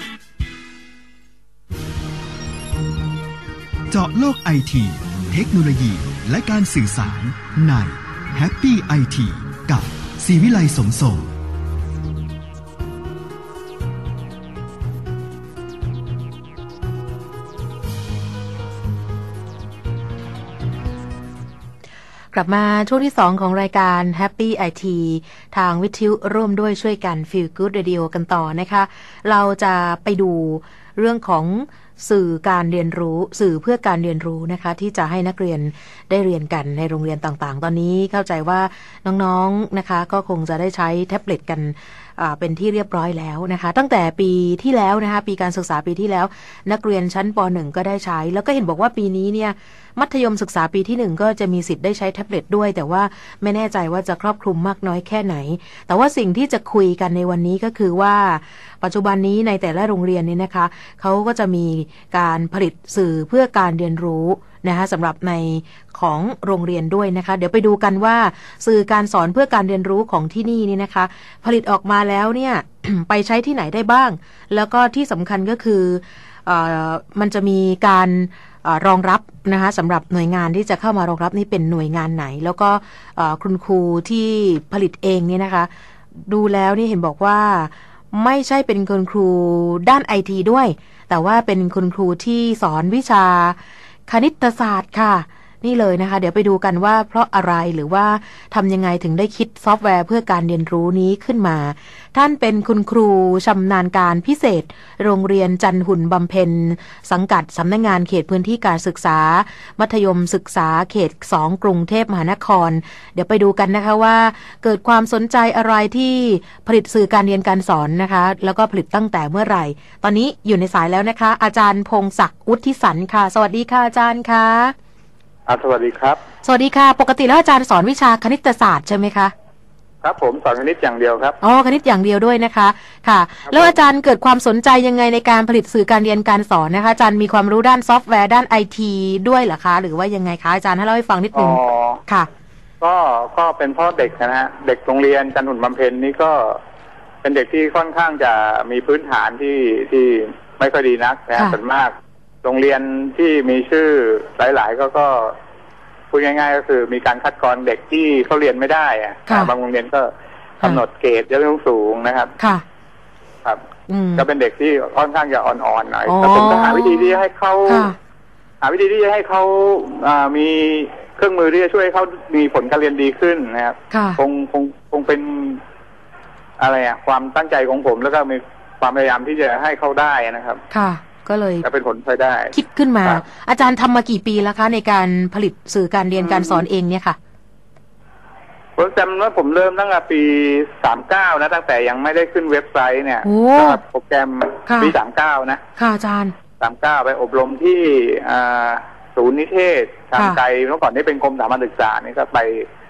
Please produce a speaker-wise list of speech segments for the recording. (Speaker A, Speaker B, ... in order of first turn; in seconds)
Speaker A: 3.9-11.3
Speaker B: 22.3-124.7, 126.4-129.3, 131.4-142.3, 159.3-159.5, 162.4-162.6, 163.9-164.2, 166.1-167.9, 173.9-174.2, 180.7-181.7, 182.5-187.2, 193.2-193.8, 194.7-194.9, 195.8-196.3
Speaker C: 125.5-126.2, 130.0-131.4, 133.5-133.7, 141.3-142.0, 142.8-146.6, 147.2-151.9, 152.4-155.3, 156.1-162.3, 164.2-167.9, 168.6-175.6, 176.6-180.6, 181.6-182.5, 186.2-186.6, 188.8-195.6, 196.6-202.7